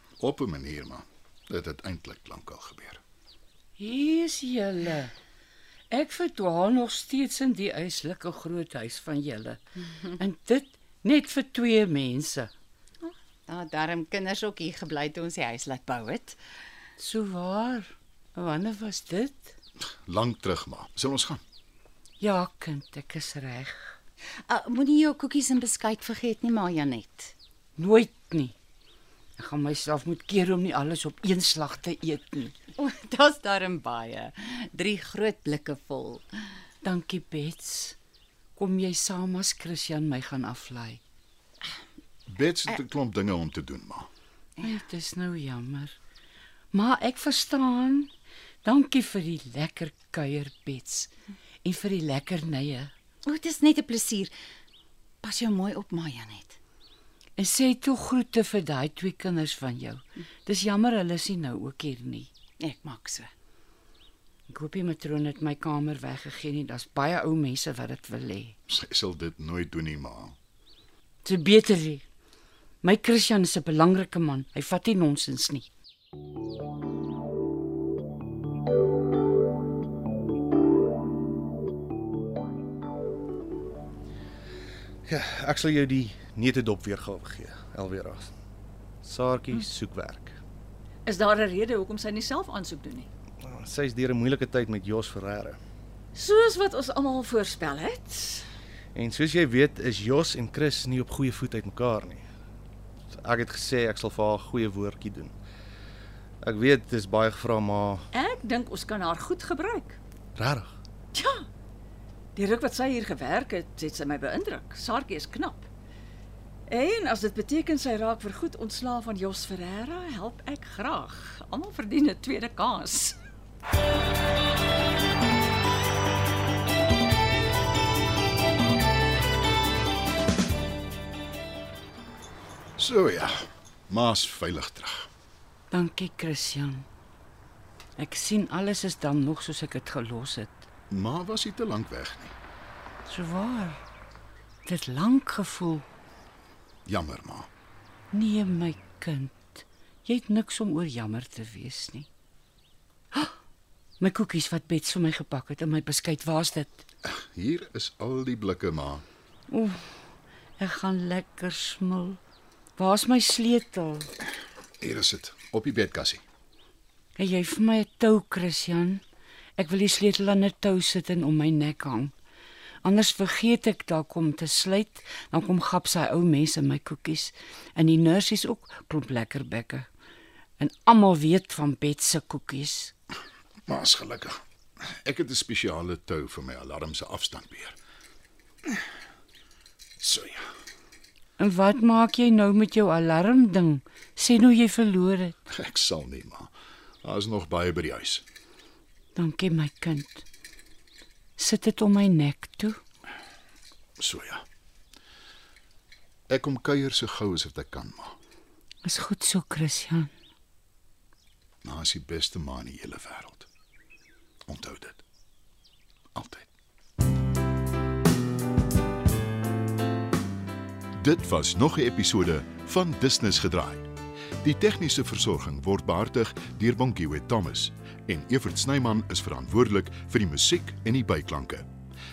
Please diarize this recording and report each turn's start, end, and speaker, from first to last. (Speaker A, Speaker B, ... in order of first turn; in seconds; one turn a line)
Speaker A: 0.2-3.0
Speaker B: 3.8-5.1
Speaker B: 5.9-9.6
Speaker B: 10.1-12.5
Speaker C: 13.0-16.4
Speaker B: 17.0-19.5
Speaker A: 20.1-21.4
Speaker B: 22.2-23.9
Speaker C: 24.5-27.3
Speaker B: 27.8-28.6
Speaker B: 29.4-32.5
Speaker C: 32.8-36.2
Speaker B: 36.8-38.0
Speaker B: 38.6-41.0
Speaker A: 42.3-44.1
Speaker B: 44.6-46.0
Speaker B: 46.7-48.1
Speaker B: 48.6-51.1
Speaker B: 51.6-52.9
Speaker C: 53.2-54.3
Speaker C: 55.2-56.6
Speaker B: 57.4-62.3
Speaker C: 62.6-63.3
Speaker B: 64.5-68.5
Speaker A: 68.7-70.4
Speaker B: 71.2-72.0
Speaker B: 72.8-75.7
Speaker D: 85.1-88.3
Speaker D: 89.0-90.4
Speaker E: 91.0-93.1
Speaker D: 93.4-95.6
Speaker E: 96.1-98.5
Speaker D: 99.0-102.2
Speaker D: 103.1-105.4
Speaker D: 106.4-108.1
Speaker E: 108.1-110.0
Speaker D: 110.4-110.7
Speaker E: 111.1-111.5
Speaker E: 112.3-115.7
Speaker E: 116.7-123.2
Speaker A: 132.8-133.4
Speaker A: 133.9-135.1
Speaker B: 135.7-136.8
Speaker B: 138.0-140.7
Speaker A: 140.9-142.4
Speaker B: 143.1-143.8
Speaker B: 144.7-145.9
Speaker A: 146.9-147.5
Speaker B: 148.1-152.1
Speaker B: 154.0-156.8
Speaker A: 157.1-159.1
Speaker B: 159.5-159.8
Speaker B: 160.6-162.2
Speaker B: 162.8-164.1
Speaker A: 164.8-166.2
Speaker B: 167.2-169.0
Speaker B: 169.6-172.1
Speaker B: 172.8-179.9
Speaker B: 180.6-182.9
Speaker A: 183.7-184.4
Speaker A: 185.0-187.8
Speaker A: 190.0-190.5
Speaker B: 191.4-195.3
Speaker A: 195.5-196.5
Speaker A: 197.0-198.2
Speaker B: 199.1-200.2
Speaker B: 201.4-202.8
Speaker A: 204.0-204.4
Speaker A: 206.3-208.2
Speaker B: 208.8-210.1
Speaker A: 211.6-213.5
Speaker A: 214.5-215.0
Speaker A: 216.1-216.5
Speaker A: 221.0-223.9
Speaker A: 224.4-231.7